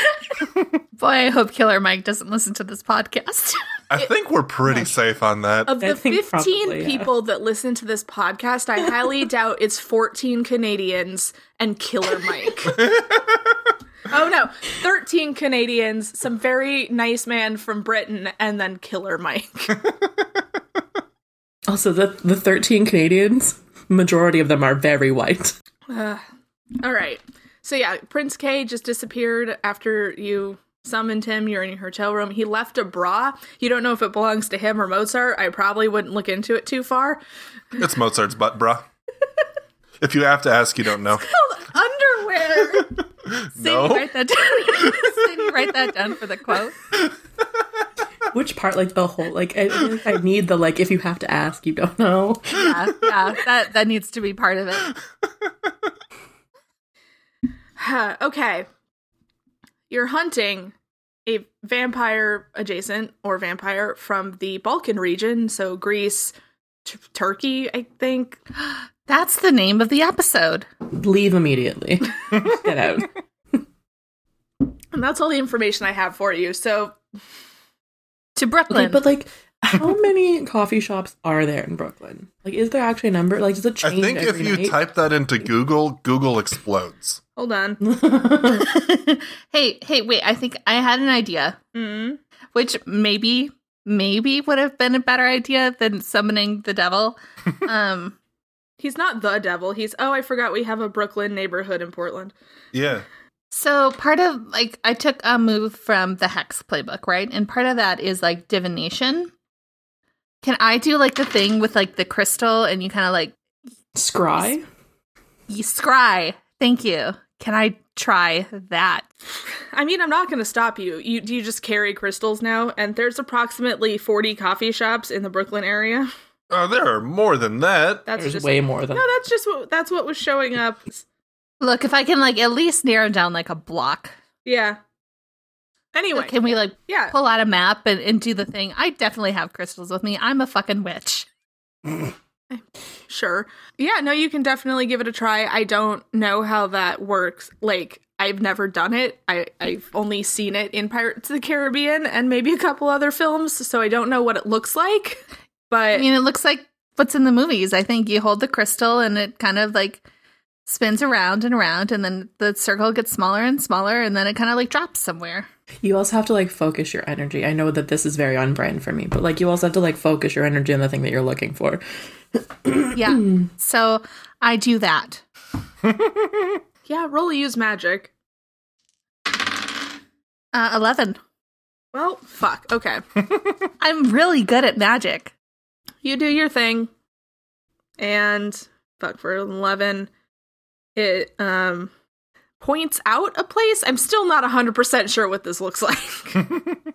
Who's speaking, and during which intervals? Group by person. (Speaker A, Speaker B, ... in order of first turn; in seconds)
Speaker A: 1.0-3.6, 43.6-46.8, 52.5-54.9, 69.1-70.7, 78.4-79.0, 88.5-91.6, 92.5-98.2, 103.5-109.3, 110.4-113.3, 115.5-119.0, 131.6-134.1, 136.2-141.3, 155.9-160.0, 160.7-165.5, 172.9-175.2, 180.5-181.2, 183.8-185.3
Speaker B: 3.9-5.8, 12.7-13.1, 37.8-38.9, 40.0-41.3, 43.2-44.1, 83.8-87.2, 102.7-103.0, 126.5-128.1, 175.8-176.6
Speaker C: 5.7-12.8, 14.1-19.7, 25.9-26.2, 26.8-37.2, 41.2-42.9, 57.8-58.7, 59.9-60.7, 61.3-68.4, 74.9-77.0, 87.4-87.8, 91.7-92.2, 98.8-102.3, 119.7-126.1, 128.1-131.1, 134.4-134.8, 135.9-137.1, 142.5-156.1, 176.9-178.1, 181.9-183.0, 186.0-186.9, 188.0-190.1, 191.0-191.9, 192.6-196.4
Speaker D: 5.8-7.1, 21.7-25.6, 48.3-52.8, 70.9-73.1, 78.7-84.8, 87.8-88.7, 114.0-114.7, 128.2-129.1, 165.8-171.8, 172.3-173.4